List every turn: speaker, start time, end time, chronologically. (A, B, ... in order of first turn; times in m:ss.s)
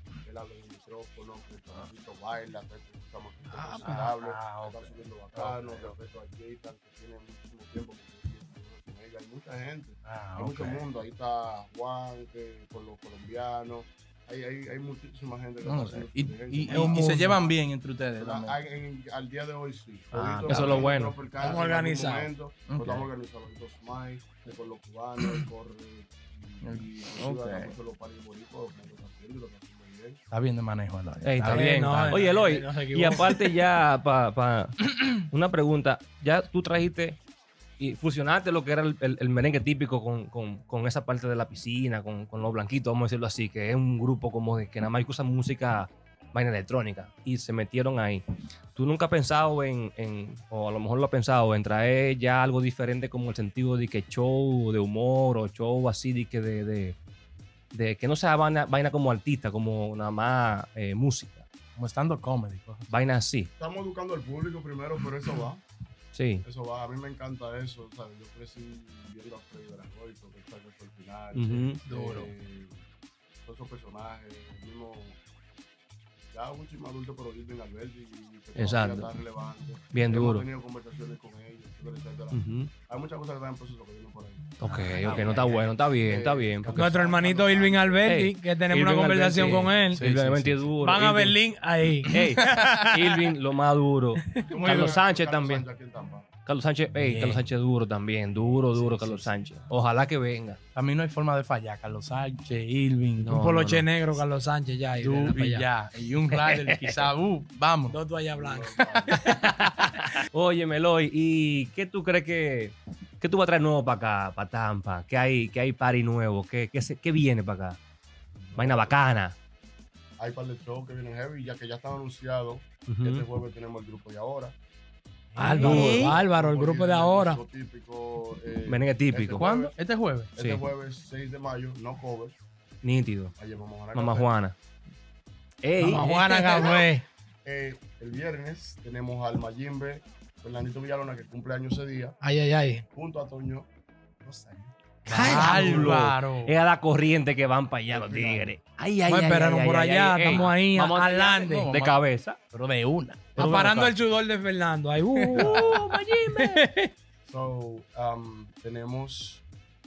0:00.2-0:17.5 A
0:03.5-0:04.1 B
0:03.8-0:06.0 C
0:10.0-0:10.8 C
0:15.6-0:18.5 C
0:16.7-0:17.4 B
0:18.2-0:30.2 A
0:20.1-0:21.1 D
0:20.4-0:20.9 C
0:21.4-0:22.3 B
0:22.7-0:23.1 C
0:26.6-0:27.7 C
0:30.3-0:32.2 C
0:31.2-0:37.2 D
0:31.5-0:33.4 B
0:37.8-0:48.2 D
0:48.7-0:57.0 D
0:57.7-1:01.4 D
1:01.8-1:02.9 C
1:02.9-1:03.5 D
1:03.6-1:05.6 A
1:06.1-1:06.4 D
1:06.4-1:12.8 A
1:11.3-1:11.8 D
1:11.9-1:12.3 B
1:11.9-1:12.2 C
1:13.4-1:15.2 A
1:16.3-1:28.1 A
1:18.6-1:19.1 D
1:19.9-1:20.4 D
1:22.3-1:22.7 D
1:24.6-1:26.8 D
1:24.7-1:25.4 C
1:26.7-1:30.0 B
1:28.0-1:31.4 D
1:29.9-1:30.7 C
1:30.8-1:33.2 B
1:32.1-1:32.7 C
1:32.1-1:35.6 D
1:34.4-1:36.3 A
1:36.4-1:40.6 D
1:37.0-1:37.4 C
1:38.7-1:39.3 A
1:40.7-1:43.4 C
1:43.2-1:43.9 D
1:43.3-1:45.6 B
1:45.0-1:48.0 C
1:46.3-1:47.0 D
1:47.9-1:49.3 B
1:48.4-1:49.2 A
1:49.1-1:57.8 D
1:58.4-1:59.0 A
1:58.6-1:59.4 D
2:00.2-2:04.5 A
2:02.9-2:03.2 D
2:05.3-2:06.2 C
2:05.4-2:07.4 B
2:05.5-2:09.7 A
2:05.7-2:06.0 D
2:08.7-2:09.4 D
2:09.4-2:10.3 C
2:10.3-2:12.3 A
2:10.4-2:10.6 D
2:12.8-2:13.3 D
2:13.4-2:14.3 A
2:13.9-2:14.6 D
2:15.6-2:16.0 D
2:15.8-2:16.9 A
2:15.8-2:17.0 B
2:17.4-2:22.2 A
2:22.2-2:22.8 B
2:22.9-2:23.7 A
2:24.2-2:24.7 A
2:25.1-2:25.9 B
2:25.1-2:26.5 C
2:25.1-2:32.4 D
2:25.6-2:25.9 A
2:27.9-2:28.5 A
2:29.0-2:31.7 B
2:31.5-2:32.0 C
2:32.5-2:33.4 C
2:33.4-2:33.9 D
2:33.4-2:36.9 B
2:35.2-2:36.6 C
2:35.4-2:35.7 D
2:37.2-2:39.4 A